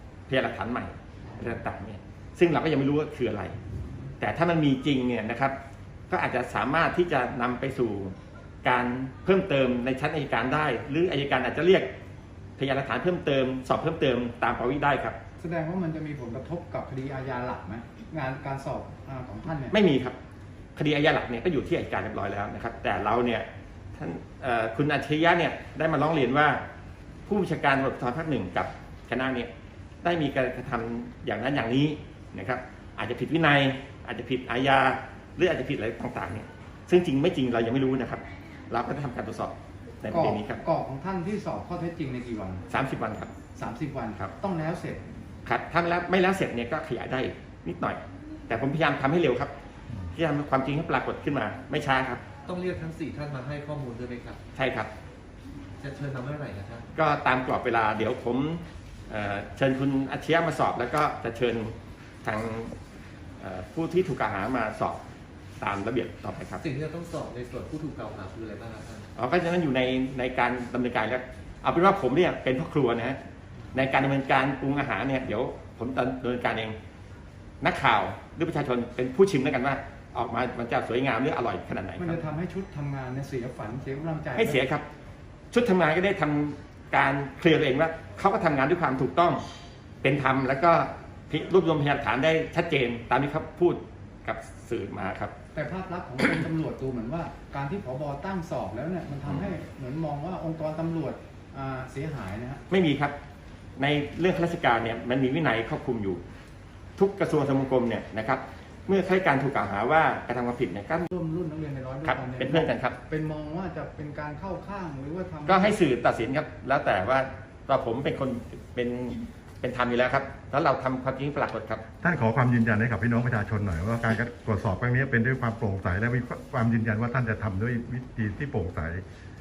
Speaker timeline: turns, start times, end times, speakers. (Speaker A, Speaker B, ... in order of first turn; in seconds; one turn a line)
Speaker A: 0.3-3.5
Speaker A: 4.2-5.5
Speaker A: 6.1-11.9
Speaker A: 12.6-15.2
Speaker B: 15.4-19.7
Speaker A: 19.7-20.2
Speaker A: 20.8-26.6
Speaker A: 27.3-29.5
Speaker A: 30.0-40.6
Speaker B: 40.1-42.6
Speaker A: 42.7-43.3
Speaker B: 43.5-45.0
Speaker A: 45.4-49.5
Speaker A: 50.1-52.2
Speaker C: 52.5-54.4
Speaker A: 54.5-54.9
Speaker C: 55.8-56.9
Speaker A: 56.9-62.7
Speaker A: 63.4-65.0
Speaker A: 65.6-66.6
Speaker C: 66.6-69.1
Speaker A: 69.1-73.2
Speaker A: 73.7-76.8
Speaker A: 77.6-82.2
Speaker B: 82.0-84.7
Speaker A: 84.3-84.8
Speaker A: 85.5-89.4
Speaker A: 90.0-95.3
Speaker B: 95.5-102.6
Speaker A: 102.7-103.1
Speaker A: 103.8-106.2
Speaker A: 107.0-111.1
Speaker B: 111.1-115.8
Speaker A: 112.0-113.0
Speaker A: 115.5-121.8
Speaker D: 122.0-129.0